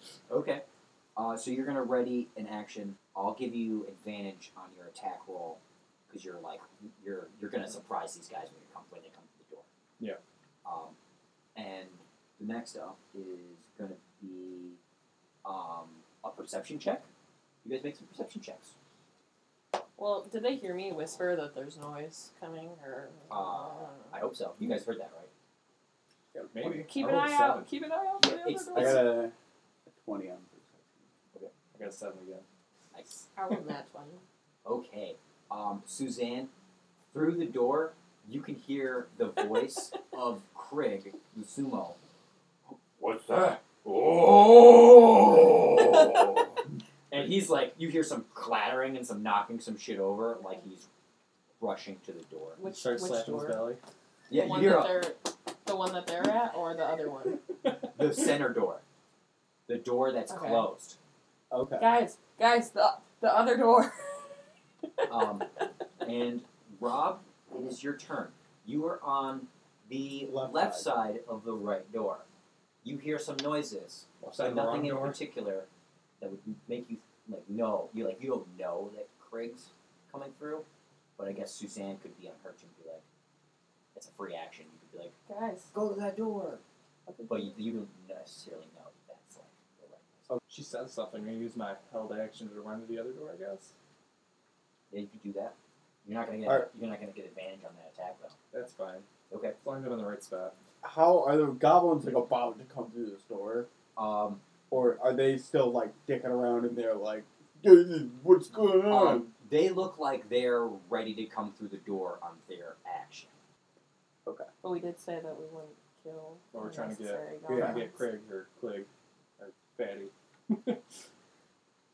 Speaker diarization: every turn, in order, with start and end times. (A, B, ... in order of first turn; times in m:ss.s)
0:00.3-0:00.6 A
0:01.2-0:09.7 A
0:10.6-0:11.0 A
0:11.5-0:14.8 A
0:15.4-0:17.1 A
0:17.6-0:18.7 A
0:20.0-0:24.2 B
0:23.3-0:25.3 A
0:26.3-0:26.8 C
0:26.5-0:27.7 D
0:26.8-0:29.1 B
0:28.2-0:29.1 A
0:28.7-0:29.3 C
0:29.9-0:31.0 C
0:31.7-0:32.4 D
0:32.9-0:33.2 A
0:33.3-0:34.2 B
0:34.6-0:36.5 A
0:37.1-0:42.0 A
0:42.7-0:46.6 A
0:47.1-0:50.9 A
0:51.6-0:52.6 A
0:52.6-0:53.7 B
0:52.6-0:53.8 D
0:54.3-0:55.0 A
0:54.3-0:57.4 B
0:57.9-0:58.8 A
0:59.7-1:01.0 A
1:00.3-1:00.7 B
1:01.5-1:01.9 C
1:01.8-1:04.2 B
1:05.1-1:12.2 A
1:10.3-1:10.9 C
1:12.8-1:15.7 A
1:14.2-1:15.2 D
1:16.2-1:20.6 A
1:21.2-1:23.0 A
1:23.9-1:25.1 A
1:25.3-1:25.7 B
1:25.7-1:26.6 A
1:27.1-1:27.5 B
1:27.3-1:30.3 A
1:30.5-1:33.7 D
1:34.9-1:38.4 A
1:38.5-1:39.1 D
1:39.3-1:39.6 A
1:39.6-1:40.5 D
1:40.8-1:43.7 C
1:44.0-1:44.4 A
1:44.7-1:49.3 C
1:48.9-1:53.3 A
1:54.6-1:58.0 B
1:56.5-2:00.8 D
1:57.5-1:57.8 C